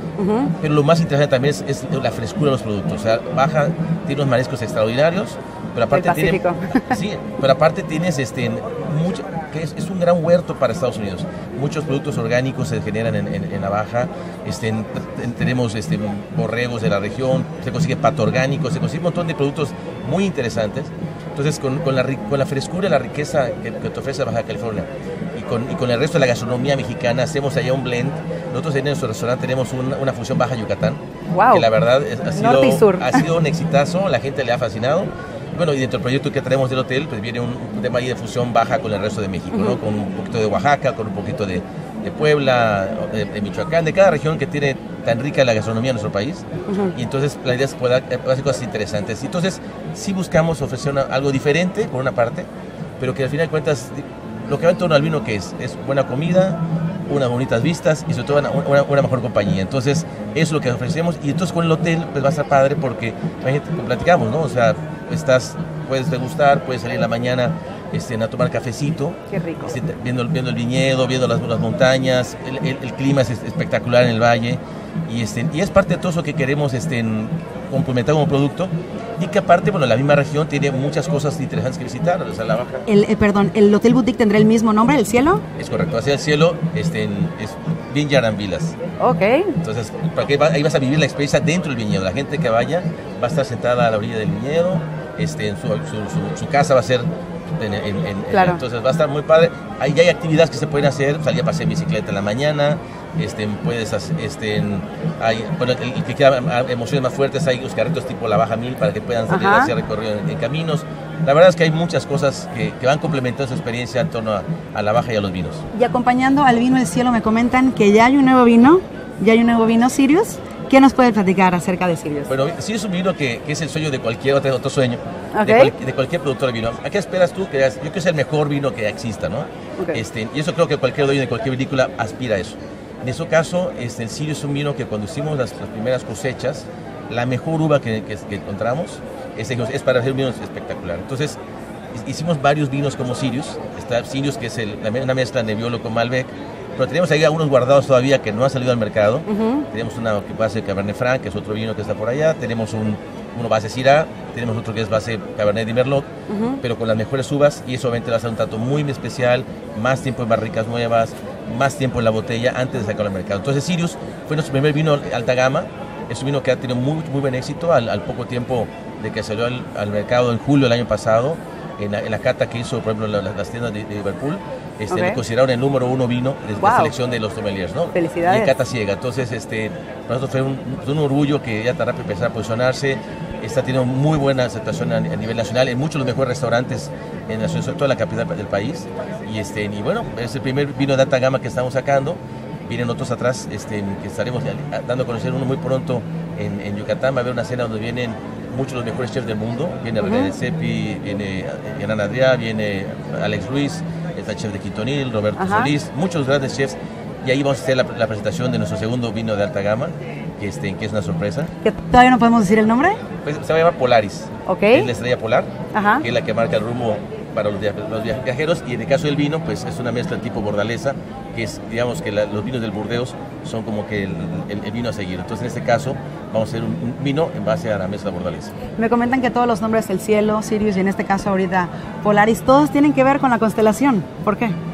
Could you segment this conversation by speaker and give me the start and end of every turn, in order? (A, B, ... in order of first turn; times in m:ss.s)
0:00.2-0:00.5 A
0:00.6-0:52.5 B
0:05.9-0:07.0 A
0:31.3-0:31.7 A
0:32.3-0:33.3 A
0:39.5-0:39.8 A
0:46.7-0:47.0 A
0:53.0-1:22.9 B
1:09.3-1:09.7 A
1:22.8-1:25.4 A
1:25.6-1:28.8 B
1:29.0-1:29.6 A
1:29.6-1:55.6 B
1:38.3-1:38.6 A
1:49.3-1:49.7 A
1:55.7-2:02.3 A
2:02.3-2:21.4 B
2:05.3-2:05.7 A
2:09.8-2:10.0 A
2:21.9-2:36.1 B
2:29.3-2:29.7 A
2:36.3-2:36.6 A
2:36.6-3:31.5 B
2:54.9-2:55.2 A
2:56.6-2:56.9 A
2:57.9-2:58.6 A
3:20.0-3:20.3 A
3:25.4-3:25.7 A
3:31.6-3:33.0 A
3:33.2-3:48.5 B
3:34.4-3:34.9 A
3:35.7-3:36.1 A
3:48.7-3:54.6 A